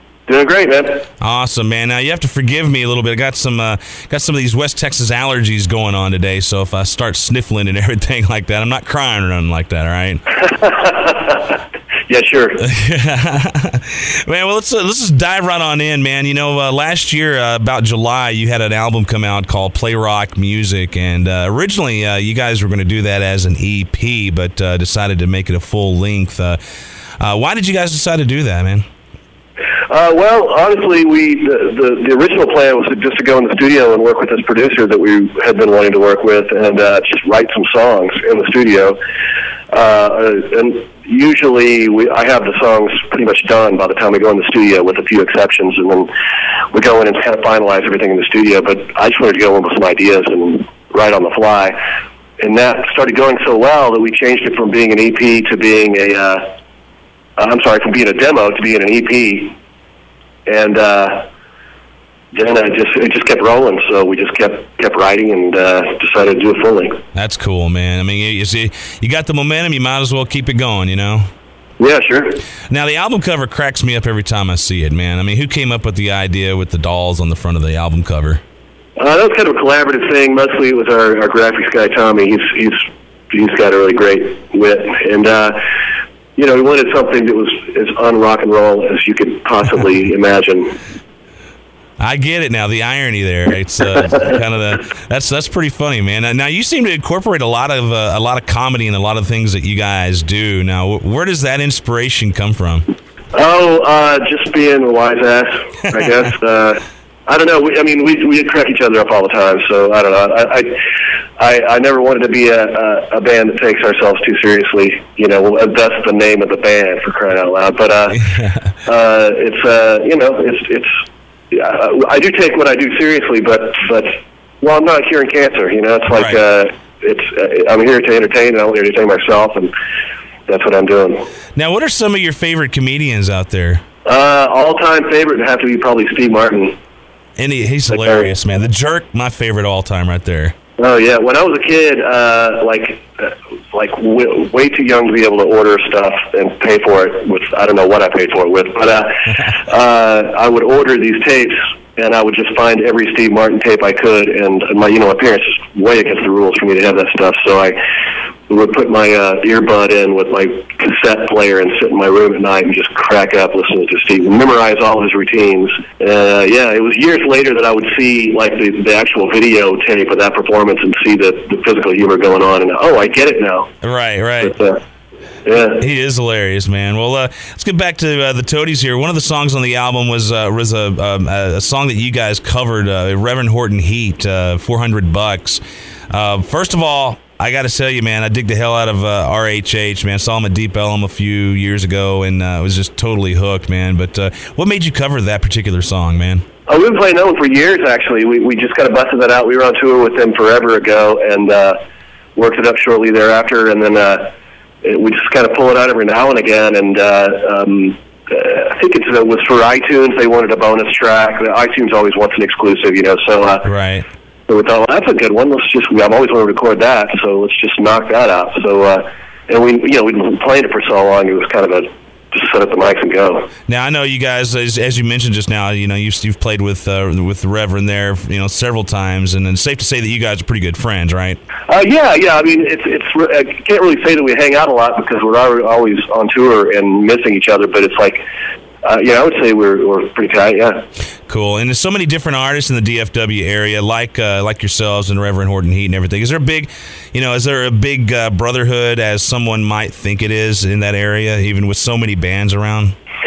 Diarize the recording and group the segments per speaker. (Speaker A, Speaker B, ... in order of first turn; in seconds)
Speaker A: 0.3-1.1, 10.4-11.6, 12.1-12.6, 29.9-39.0, 39.7-46.1, 46.7-51.8, 52.4-56.5, 57.4-59.5, 60.5-61.2, 62.3-67.0, 71.8-72.4, 79.0-85.6, 86.3-90.8, 103.3-110.8, 111.4-118.2, 118.8-120.9, 121.5-129.7, 130.5-131.2, 134.0-136.8, 137.9-138.3, 140.8-157.8, 158.5-173.7, 174.5-174.8, 175.4-175.8, 196.7-201.8, 202.3-213.7, 214.5-223.5, 231.7-238.2, 238.8-240.8
Speaker B: 1.2-10.2, 12.6-26.6, 27.2-28.9, 67.1-71.3, 72.7-78.4, 92.0-102.8, 126.1-126.3, 131.5-133.8, 137.4-140.5, 173.8-174.6, 175.8-196.4, 213.6-214.1, 223.7-231.4, 241.3-252.9